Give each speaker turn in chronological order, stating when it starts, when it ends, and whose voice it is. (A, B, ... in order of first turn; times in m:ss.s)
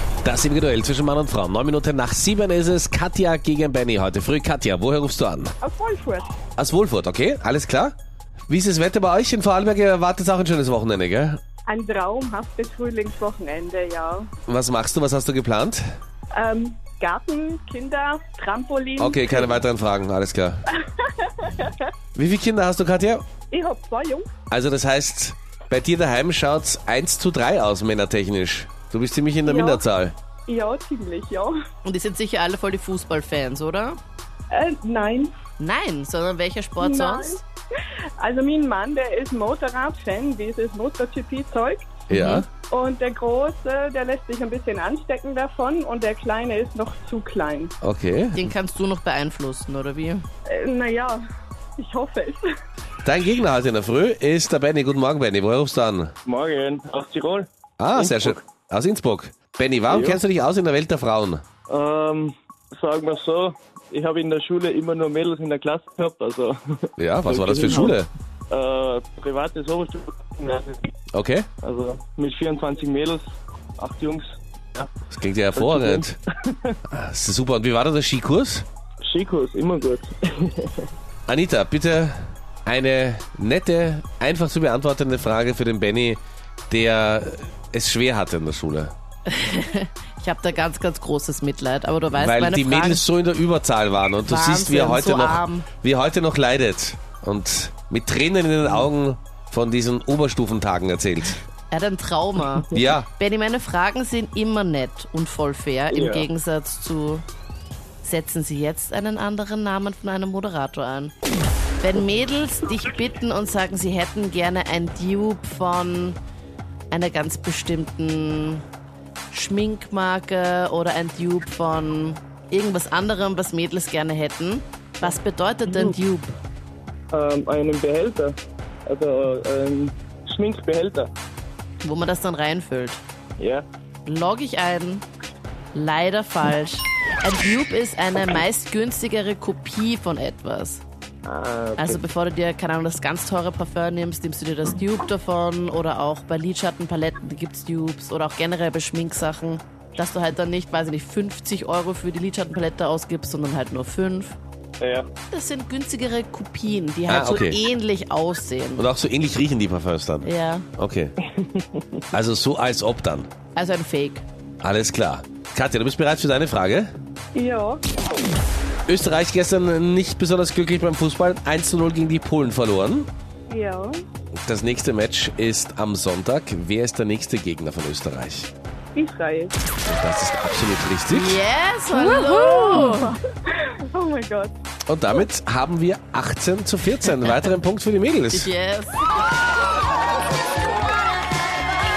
0:00.2-0:05.5 A
0:05.6-0:06.3 B
0:06.6-0:07.9 A
0:08.5-0:11.4 A
0:11.7-0:14.3 B
0:14.5-0:15.8 A
0:16.3-0:19.6 B
0:19.0-0:20.6 A
0:20.8-0:21.9 B
0:22.1-0:23.2 A
0:23.5-0:24.3 B
0:24.5-0:30.1 A
0:29.4-0:29.8 B
0:30.5-0:31.5 B
0:31.8-0:34.0 C
0:34.5-0:35.3 B
0:35.6-0:37.4 C
0:36.8-0:37.4 B
0:38.2-0:42.0 B
0:42.1-0:42.4 A
0:42.1-0:42.4 C
0:42.7-0:47.7 B
0:47.8-0:48.5 A
0:48.4-0:50.2 C
0:50.5-0:51.2 B
0:51.8-0:52.5 B
0:53.0-0:56.1 A
0:56.2-0:58.4 D
0:57.8-1:01.4 A
0:59.9-1:00.2 D
1:01.7-1:08.0 D
1:07.0-1:08.1 A
1:08.5-1:10.9 D
1:11.1-1:11.5 A
1:11.6-1:13.2 D
1:13.8-1:14.9 D
1:15.1-1:16.2 A
1:15.5-1:16.8 D
1:16.9-1:18.6 A
1:19.0-1:20.9 D
1:21.3-1:28.9 A
1:29.3-1:33.0 C
1:32.1-1:41.4 A
1:34.2-1:35.7 C
1:41.7-1:47.2 C
1:42.7-1:43.1 A
1:45.9-1:46.3 D
1:48.0-1:51.1 C
1:51.8-1:56.2 C
1:56.9-1:58.6 C
1:59.3-2:06.3 C
2:05.7-2:05.9 D
2:07.1-2:08.4 D
2:08.9-2:11.1 D
2:11.8-2:13.0 C
2:13.4-2:13.6 D
2:14.0-2:15.0 C
2:15.7-2:20.8 C
2:21.2-2:22.0 D
2:21.8-2:34.4 C
2:34.8-2:35.1 D
2:35.3-2:38.8 C
2:37.1-2:37.6 A
2:38.8-2:41.1 A
2:40.2-2:40.7 C
2:41.4-2:41.8 D
2:42.1-2:43.3 A
2:43.5-2:44.2 C
2:44.6-2:46.9 A
2:47.3-2:47.8 B
2:48.9-2:53.1 A
2:53.5-2:54.0 B
2:54.4-2:58.5 A
2:58.9-2:59.5 B
2:59.8-3:01.4 A
3:01.1-3:03.1 C
3:01.9-3:04.5 B
3:04.9-3:08.5 A
3:08.3-3:09.1 C